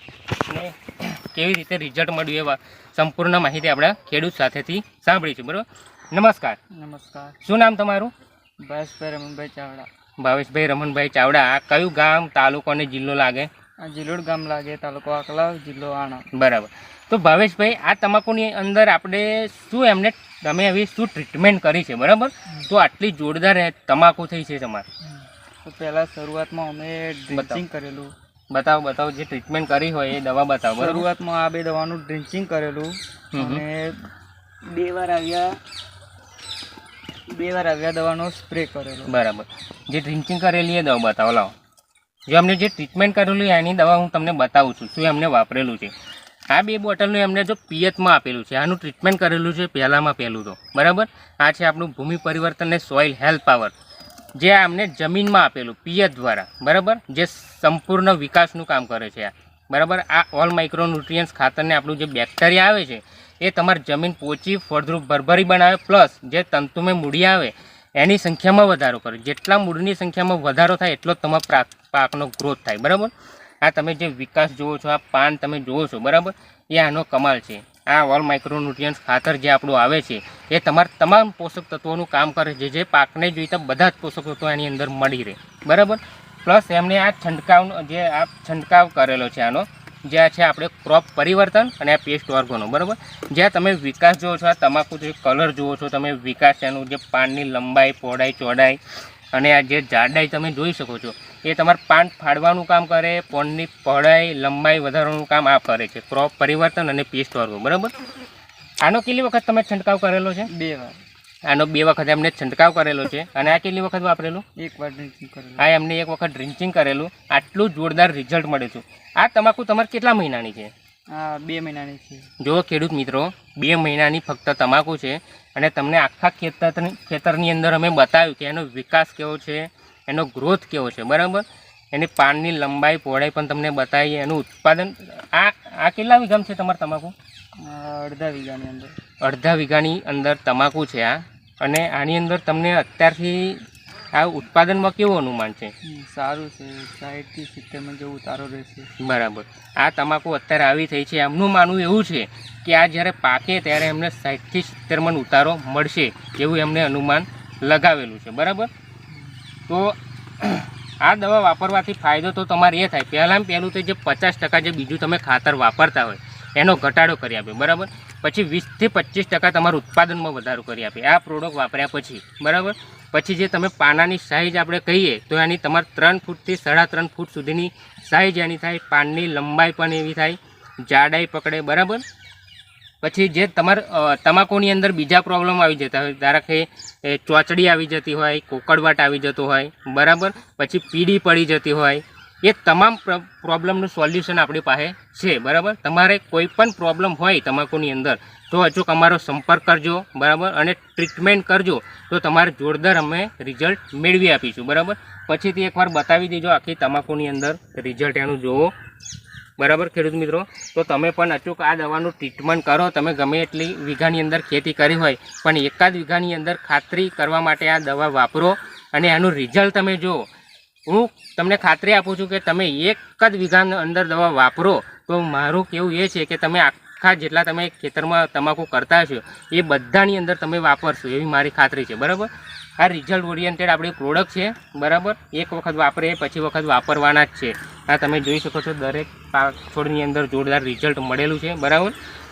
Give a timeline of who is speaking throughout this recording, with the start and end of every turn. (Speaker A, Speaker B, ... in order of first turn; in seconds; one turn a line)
Speaker A: 0.5-6.6
Speaker B: 6.8-7.4
Speaker A: 7.4-8.1
Speaker B: 8.6-9.9
Speaker A: 10.2-13.5
Speaker B: 13.8-16.3
Speaker A: 16.3-24.9
Speaker B: 25.6-28.1
Speaker A: 27.3-27.6
Speaker A: 28.5-31.0
Speaker B: 30.8-34.1
Speaker A: 33.3-33.6
Speaker B: 34.7-35.6
Speaker B: 37.3-39.1
Speaker A: 39.1-41.5
Speaker A: 42.3-45.9
Speaker A: 46.5-53.7
Speaker A: 54.3-98.8
Speaker A: 99.3-107.9
Speaker A: 108.8-110.5
Speaker B: 110.5-111.0
Speaker A: 111.5-114.4
Speaker B: 114.6-115.6
Speaker A: 115.6-120.7
Speaker B: 121.1-122.3
Speaker A: 122.4-137.1
Speaker B: 137.6-138.9
Speaker A: 139.2-143.6
Speaker A: 144.1-145.7
Speaker B: 145.8-148.9
Speaker A: 149.0-158.7
Speaker A: 159.7-182.0
Speaker A: 183.0-208.7
Speaker A: 209.6-220.3
Speaker A: 220.9-241.9